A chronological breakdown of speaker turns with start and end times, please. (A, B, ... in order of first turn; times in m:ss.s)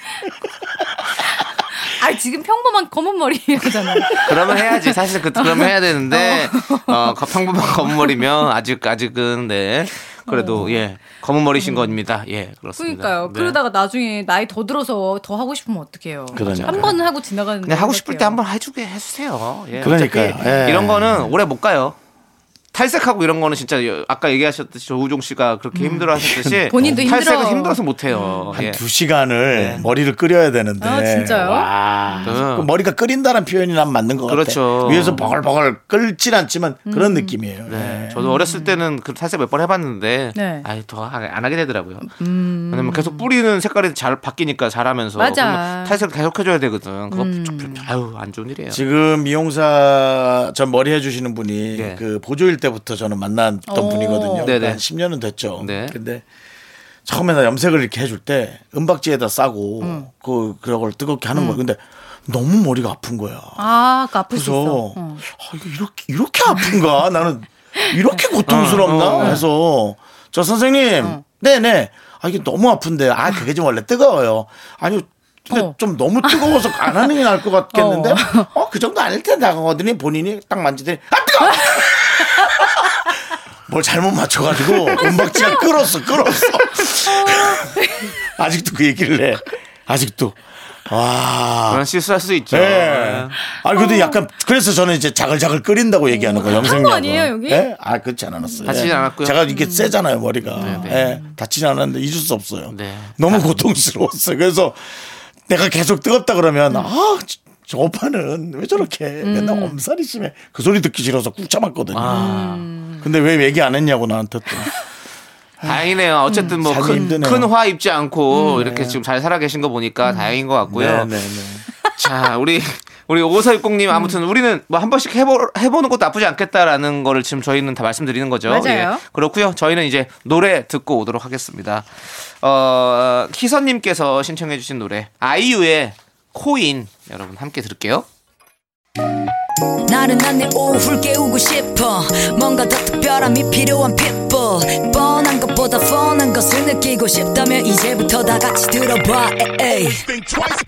0:01.8-0:08.2 A
0:04.2-0:13.6 B
0:10.3-0:10.8 A
0:11.6-0:12.0 A
0:12.8-0:18.4 A
0:16.3-0:17.0 C
0:16.3-0:17.0 B
0:17.6-0:22.0 B
0:19.8-0:21.4 C
0:22.7-0:28.8 B
0:25.7-0:26.1 A
0:26.1-0:27.1 C
0:26.7-0:28.6 A
0:28.5-0:38.2 C
0:29.5-0:29.9 B
0:30.8-0:32.4 A
0:32.2-0:32.7 B
0:34.3-0:35.3 B
0:36.9-0:37.4 A
0:37.7-0:42.1 B
0:38.2-0:38.8 A
0:40.4-0:40.7 A
0:42.0-0:43.3 A
0:42.7-0:48.8 B
0:45.2-0:46.0 A
0:47.1-0:47.9 A
0:48.7-0:56.2 C
0:51.7-0:52.0 B
0:53.7-0:54.6 A
0:54.4-0:54.8 B
0:55.6-0:56.0 B
0:57.0-1:03.8 C
0:59.8-1:00.1 A
1:01.3-1:01.6 A
1:03.6-1:05.2 A
1:04.3-1:31.8 C
1:08.4-1:09.4 B
1:09.2-1:09.4 A
1:15.5-1:17.0 A
1:17.7-1:18.5 A
1:25.0-1:25.7 A
1:26.8-1:28.1 A
1:31.7-1:33.4 B
1:32.5-1:52.4 C
1:33.4-1:34.2 A
1:36.1-1:37.7 A
1:38.4-1:40.0 A
1:38.6-1:39.4 B
1:40.5-1:41.4 A
1:40.6-1:41.1 B
1:42.7-1:43.6 B
1:49.2-1:49.8 A
1:51.9-1:52.7 B
1:52.0-1:53.0 A
1:53.0-1:54.8 C
1:55.6-1:55.9 C
1:55.6-2:01.1 B
1:56.3-1:57.2 A
1:56.4-1:57.5 C
1:58.3-1:58.7 A
1:58.6-1:59.0 C
2:00.1-2:00.3 A
2:00.6-2:01.7 C
2:02.0-2:18.1 B
2:03.9-2:04.2 A
2:08.4-2:09.0 A
2:19.9-2:30.1 D